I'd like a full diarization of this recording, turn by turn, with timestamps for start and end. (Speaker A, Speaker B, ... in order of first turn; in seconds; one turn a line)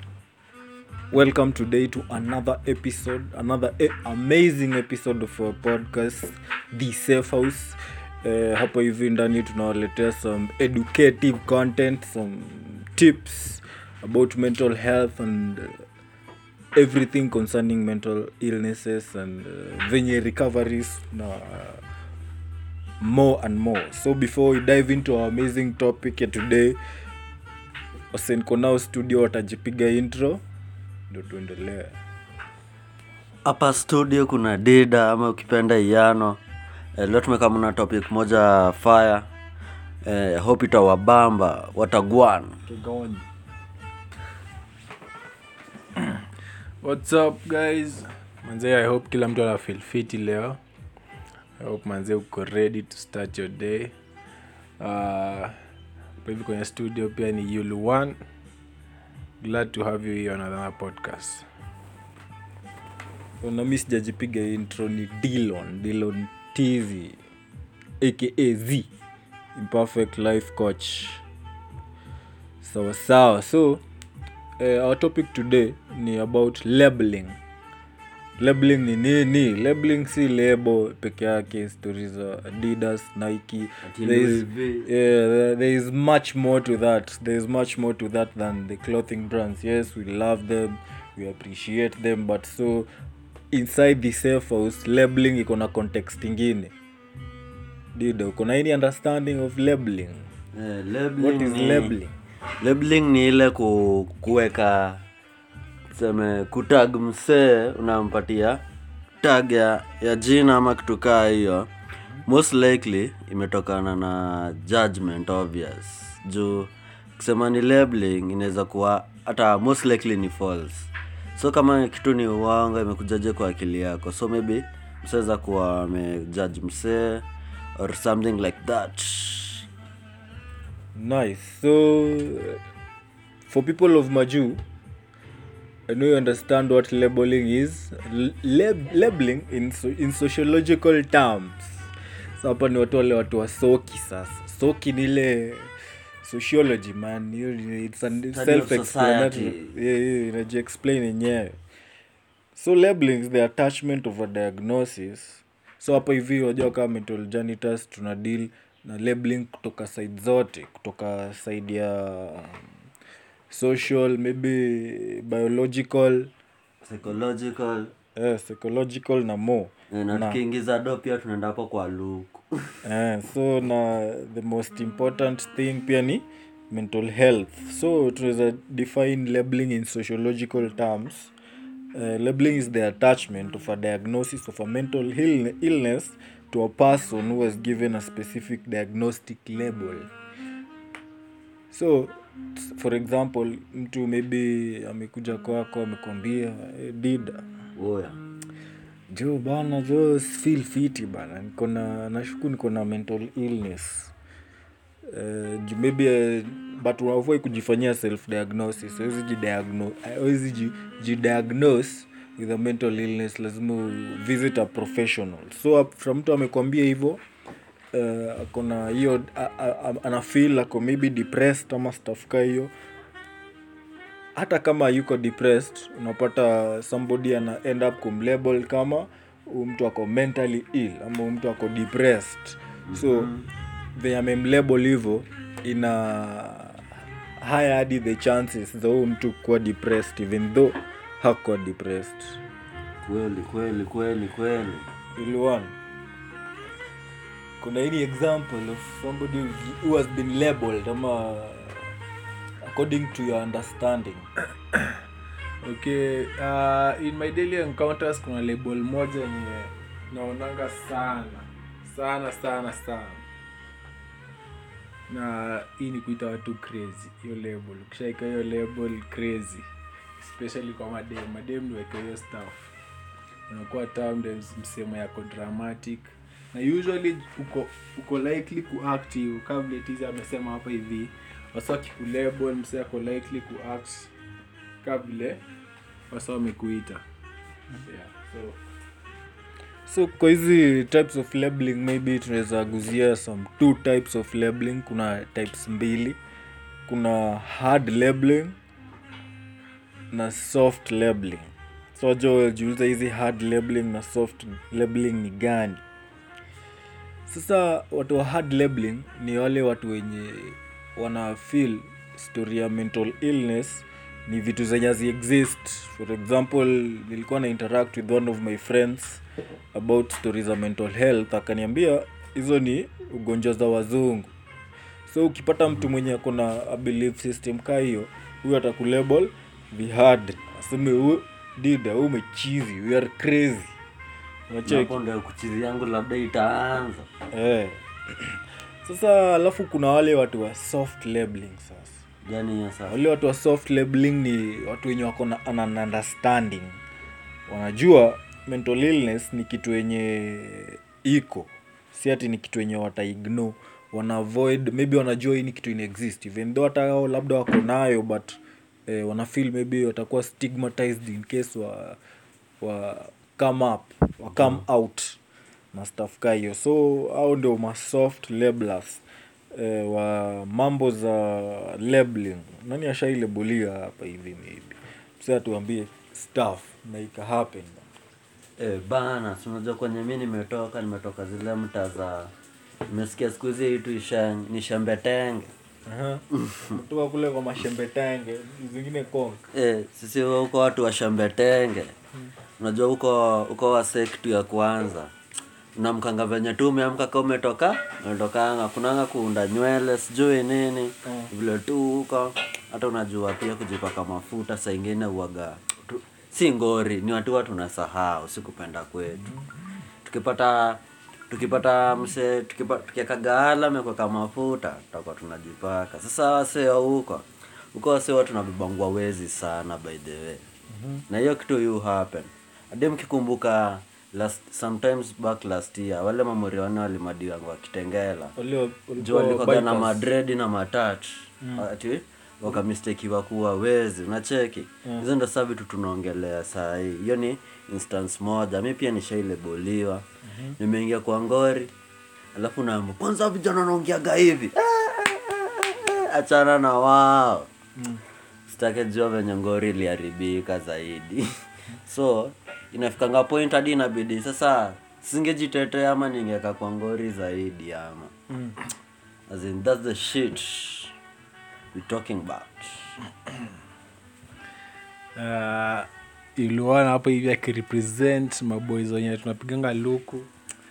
Speaker A: 1.1-15.8
Speaker A: 16.8-21.8
Speaker A: 23.0-26.8
Speaker A: 28.1-30.4
Speaker A: 31.1-31.9
Speaker B: 33.4-36.4
Speaker B: 37.0-39.3
Speaker B: 40.0-42.6
Speaker A: 42.7-43.2
Speaker C: 46.8-50.6
Speaker C: 51.6-53.9
Speaker C: 54.8-55.6
Speaker C: 56.2-58.2
Speaker C: 59.4-61.5
Speaker A: 63.4-67.2
Speaker A: 68.0-68.9
Speaker A: 69.5-71.2
Speaker A: 72.6-73.8
Speaker A: 74.6-77.4
Speaker A: 78.4-92.9
Speaker B: 83.8-84.9
Speaker A: 93.5-96.7
Speaker A: 97.9-100.3
Speaker B: 100.5-101.9
Speaker A: 101.2-102.1
Speaker B: 102.6-105.1
Speaker B: 105.9-108.6
Speaker B: 109.2-111.7
Speaker B: 112.2-127.2
Speaker B: 127.8-129.7
Speaker A: 130.9-132.6
Speaker A: 133.4-134.6
Speaker A: 135.9-151.6
Speaker B: 148.3-149.7
Speaker A: 152.5-162.7
Speaker A: 163.5-166.3
Speaker B: 166.8-167.9
Speaker A: 168.2-170.4
Speaker B: 169.9-172.8
Speaker A: 172.8-181.3
Speaker A: 181.9-190.1
Speaker A: 191.7-197.4
Speaker B: 197.8-198.2
Speaker A: 199.1-204.1
Speaker A: 205.1-217.2
Speaker A: 217.9-222.7
Speaker A: 224.3-233.3
Speaker B: 232.9-233.4
Speaker A: 233.9-242.4
Speaker B: 243.1-244.9
Speaker A: 245.1-245.8
Speaker A: 247.6-251.9
Speaker A: 252.6-254.3
Speaker C: 255.6-263.2
Speaker C: 265.1-272.7
Speaker C: 273.5-284.1
Speaker C: 284.8-285.4
Speaker C: 286.1-287.0
Speaker C: 287.9-288.6
Speaker A: 289.9-296.2
Speaker A: 296.9-298.6
Speaker A: 300.1-305.8
Speaker A: 307.3-324.3
Speaker A: 325.1-333.8
Speaker A: 334.5-334.9
Speaker B: 334.6-337.1
Speaker A: 337.3-342.0
Speaker B: 342.2-342.9
Speaker A: 342.9-346.8
Speaker A: 347.5-362.0
Speaker A: 362.6-365.2
Speaker A: 365.7-369.0
Speaker A: 369.5-377.9
Speaker B: 378.6-382.3
Speaker B: 382.9-385.5
Speaker A: 385.9-389.4
Speaker B: 386.4-386.8
Speaker B: 389.5-391.9
Speaker B: 392.6-395.1
Speaker B: 395.8-409.3
Speaker B: 410.0-420.4
Speaker A: 420.7-421.0
Speaker B: 421.1-428.3
Speaker A: 428.4-430.1
Speaker B: 429.0-440.1
Speaker A: 440.3-440.6
Speaker B: 440.6-441.7
Speaker B: 442.3-447.5
Speaker A: 447.8-448.0
Speaker B: 448.5-458.1
Speaker A: 458.3-458.6
Speaker B: 459.3-460.9
Speaker B: 461.7-462.9
Speaker C: 465.2-470.3